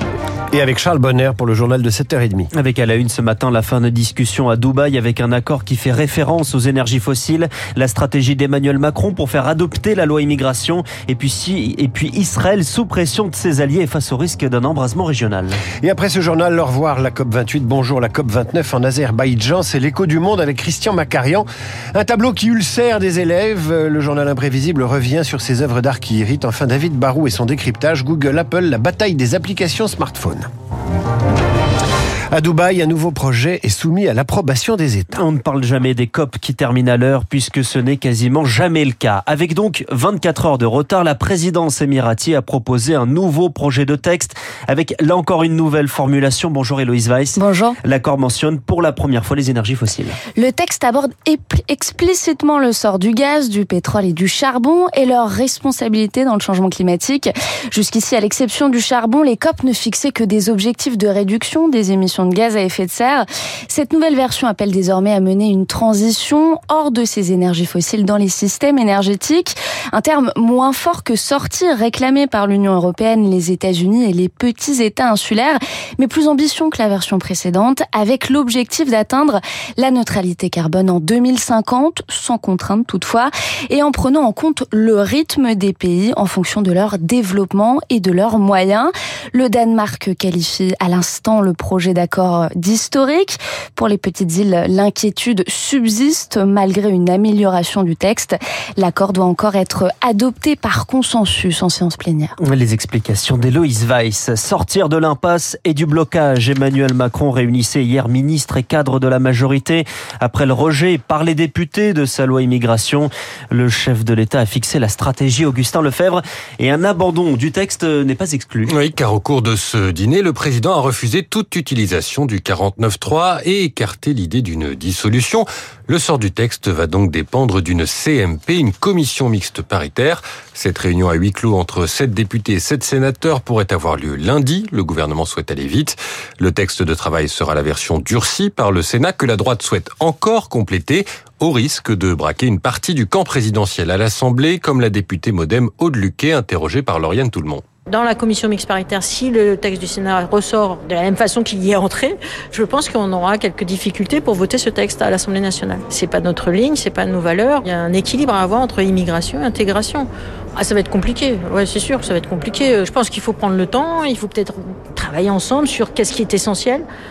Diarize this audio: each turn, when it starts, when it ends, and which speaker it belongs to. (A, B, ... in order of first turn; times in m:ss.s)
0:00.5-0:02.5 A
0:02.5-0:15.6 B
0:15.8-0:30.4 A
0:32.3-0:35.2 A
0:35.1-0:50.2 B
0:47.4-0:47.8 C
0:50.4-1:42.3 C
1:42.4-1:58.7 B
1:58.7-2:27.6 D
2:28.1-2:31.9 E
2:33.6-2:33.9 E
2:34.5-2:35.2 E
2:36.4-2:37.5 E
2:38.3-2:40.0 E
2:40.6-2:42.0 E
2:45.0-2:46.8 E